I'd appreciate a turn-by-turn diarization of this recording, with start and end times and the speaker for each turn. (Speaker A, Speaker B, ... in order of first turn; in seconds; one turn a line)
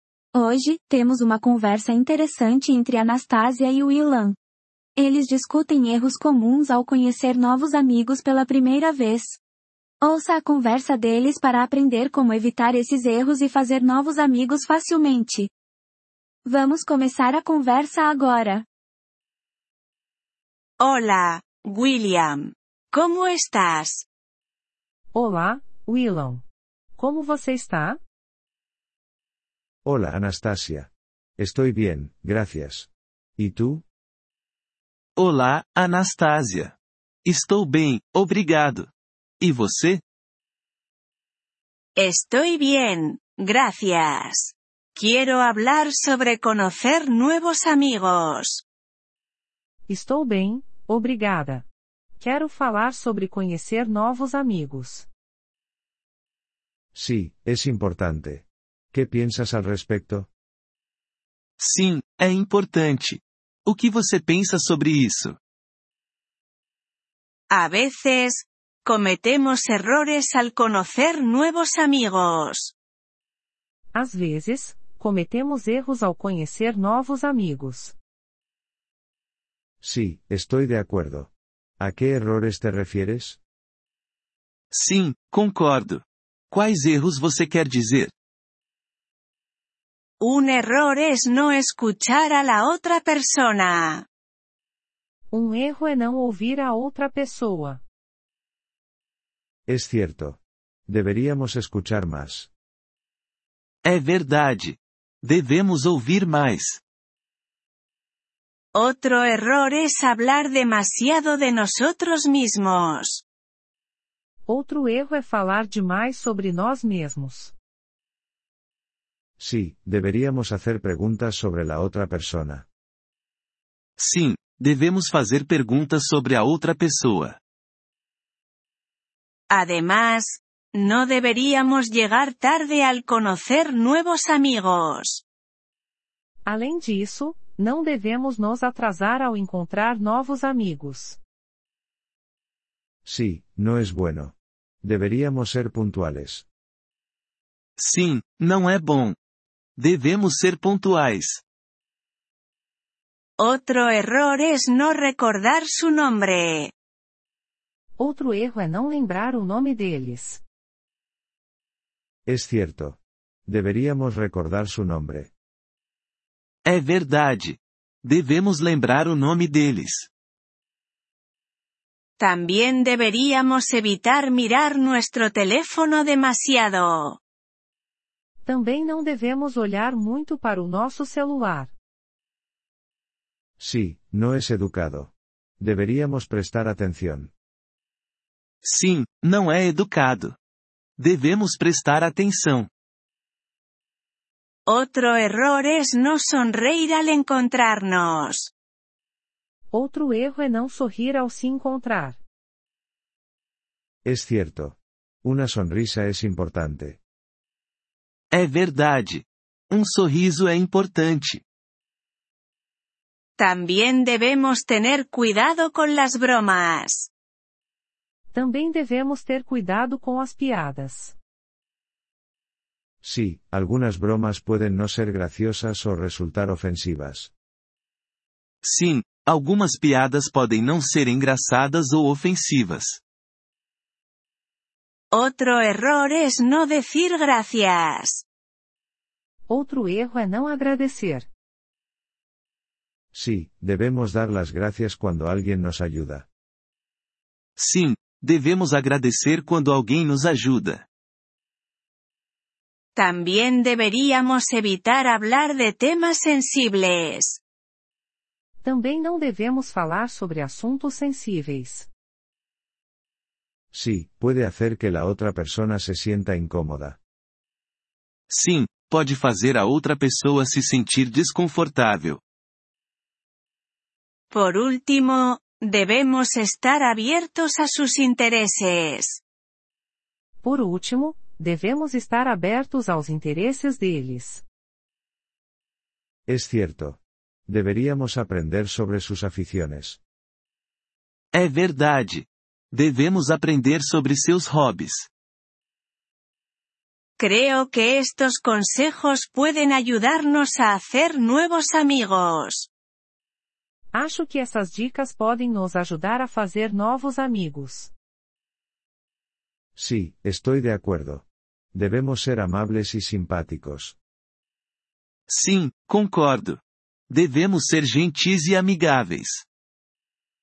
Speaker A: 0.3-4.4
Speaker A: 5.0-9.4
Speaker A: 10.0-15.5
Speaker A: 16.4-18.6
Speaker B: 20.8-24.1
Speaker C: 25.1-26.4
Speaker C: 26.9-28.0
Speaker D: 29.8-33.8
Speaker E: 35.1-40.0
Speaker B: 42.0-48.6
Speaker C: 49.9-51.6
Speaker C: 52.2-55.1
Speaker D: 56.9-60.3
Speaker E: 61.6-65.4
Speaker B: 67.5-72.7
Speaker C: 73.9-78.0
Speaker D: 79.8-83.4
Speaker E: 84.7-88.1
Speaker B: 90.2-94.0
Speaker C: 95.3-97.8
Speaker D: 99.7-102.5
Speaker E: 103.8-106.8
Speaker B: 108.7-113.2
Speaker C: 114.5-117.5
Speaker D: 119.4-122.7
Speaker E: 124.0-127.4
Speaker B: 129.5-135.2
Speaker C: 136.4-141.2
Speaker D: 143.0-146.4
Speaker E: 147.8-149.2
Speaker E: 149.8-151.4
Speaker B: 153.4-156.7
Speaker C: 158.0-160.4
Speaker D: 162.2-165.3
Speaker E: 166.6-170.1
Speaker B: 172.2-177.2
Speaker C: 178.4-181.7
Speaker D: 183.6-187.3
Speaker E: 188.6-190.4
Speaker E: 191.0-192.7
Speaker B: 194.7-198.5
Speaker C: 199.7-202.2
Speaker D: 204.0-207.0
Speaker E: 208.3-211.4
Speaker B: 213.4-217.1
Speaker C: 218.3-221.2
Speaker D: 223.0-227.3
Speaker E: 228.6-233.0
Speaker B: 235.1-238.2
Speaker C: 239.5-241.3
Speaker D: 243.1-246.3
Speaker E: 247.6-250.9
Speaker B: 252.9-257.4
Speaker C: 258.6-261.9
Speaker D: 263.7-267.0
Speaker E: 268.3-272.2
Speaker B: 274.3-279.2
Speaker C: 280.4-284.4
Speaker D: 286.3-290.0
Speaker E: 291.3-295.1
Speaker B: 297.2-302.7
Speaker C: 303.9-307.9
Speaker D: 309.8-313.9
Speaker E: 315.3-319.4